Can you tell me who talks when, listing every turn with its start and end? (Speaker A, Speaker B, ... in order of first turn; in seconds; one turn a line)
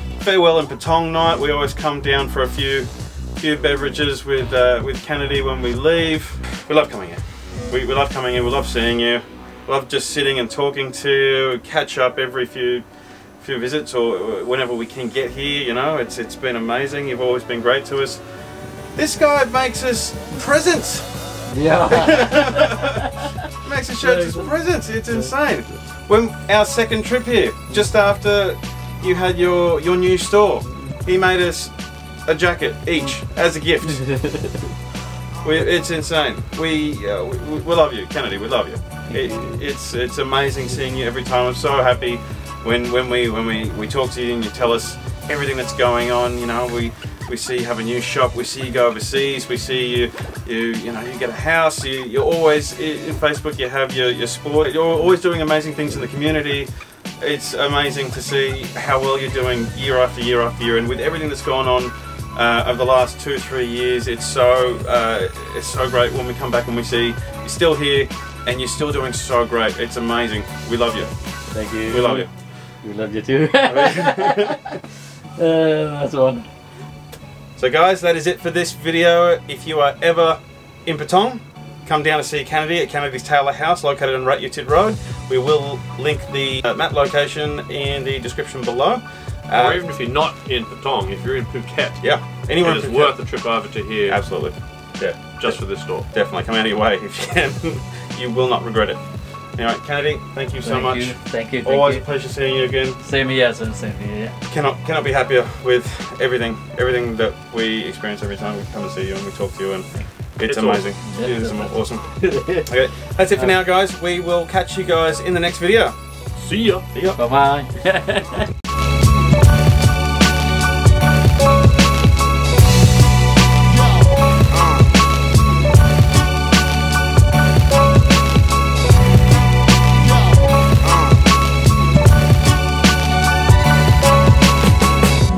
Speaker A: 0.2-12.8
Speaker A: 13.4-18.2
Speaker A: 18.9-21.2
Speaker B: 21.5-23.0
Speaker A: 21.9-22.9
Speaker A: 23.6-34.2
Speaker B: 24.0-24.5
Speaker B: 33.9-34.7
Speaker A: 35.4-71.1
Speaker B: 39.1-39.6
Speaker B: 71.5-74.8
Speaker A: 71.7-72.3
Speaker A: 73.7-74.8
Speaker B: 75.4-76.5
Speaker A: 77.6-89.8
Speaker C: 89.5-94.2
Speaker A: 92.0-93.2
Speaker A: 94.1-99.0
Speaker C: 95.3-96.1
Speaker A: 99.5-103.0
Speaker B: 100.6-102.1
Speaker B: 103.0-104.4
Speaker A: 104.4-116.0
Speaker C: 110.5-110.9
Speaker B: 111.0-112.7
Speaker B: 113.3-113.7
Speaker C: 116.4-116.9
Speaker A: 116.9-117.2
Speaker B: 117.2-118.5